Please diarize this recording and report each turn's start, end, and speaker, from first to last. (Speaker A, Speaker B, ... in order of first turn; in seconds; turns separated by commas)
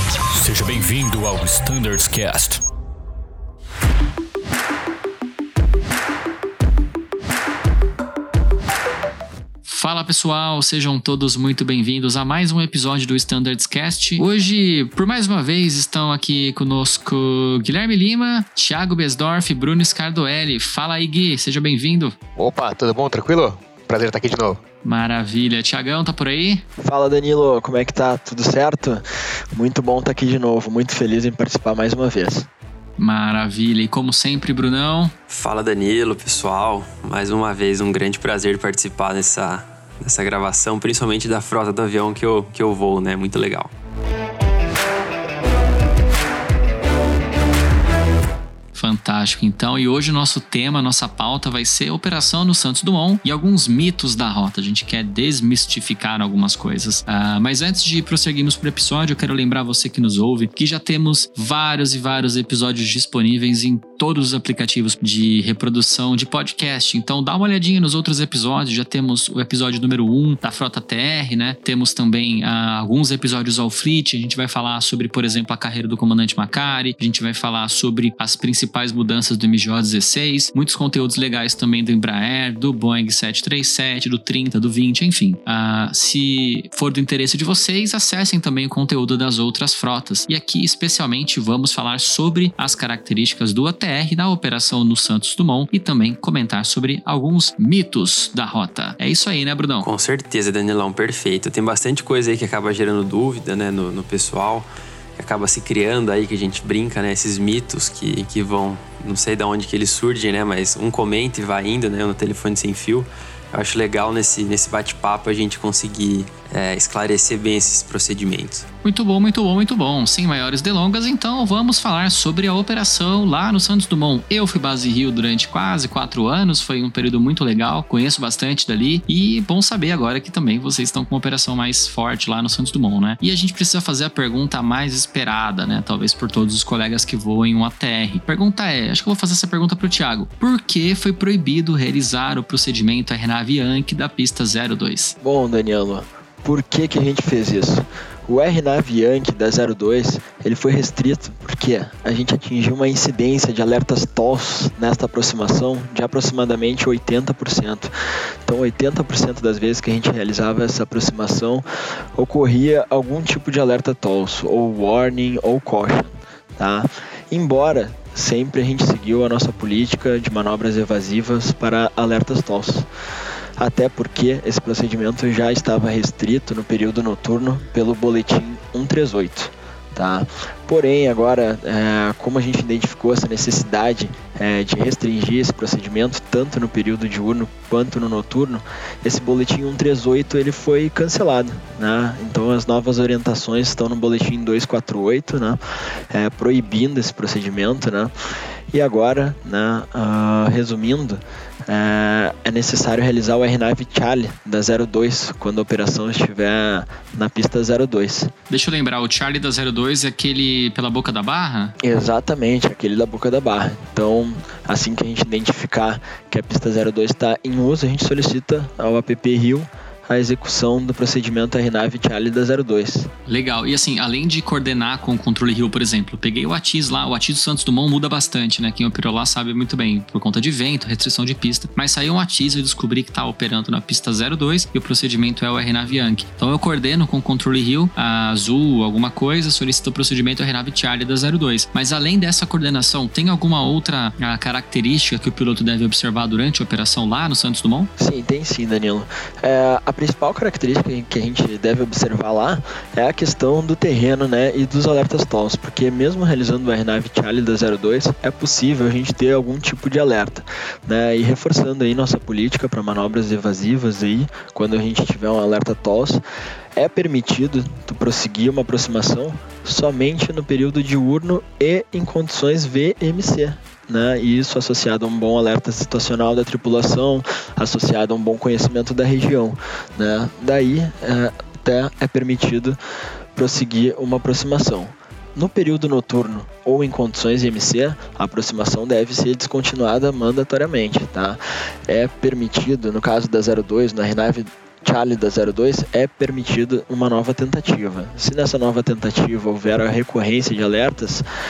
Speaker A: 0.3-2.6, Speaker B: 9.7-22.1, Speaker C: 22.4-24.6, Speaker B: 24.8-26.6, Speaker D: 26.8-32.5, Speaker B: 33.0-35.1, Speaker E: 35.3-43.7, Speaker B: 48.7-99.9, Speaker E: 99.8-118.7, Speaker B: 118.8-145.2, Speaker D: 145.2-157.9, Speaker D: 158.5-161.7, Speaker D: 162.2-172.9, Speaker D: 173.6-195.6, Speaker D: 196.1-198.1, Speaker D: 198.7-208.3, Speaker B: 208.5-211.8, Speaker D: 211.8-223.1, Speaker B: 223.3-247.9, Speaker D: 248.0-266.2, Speaker D: 266.8-282.8, Speaker D: 283.4-301.2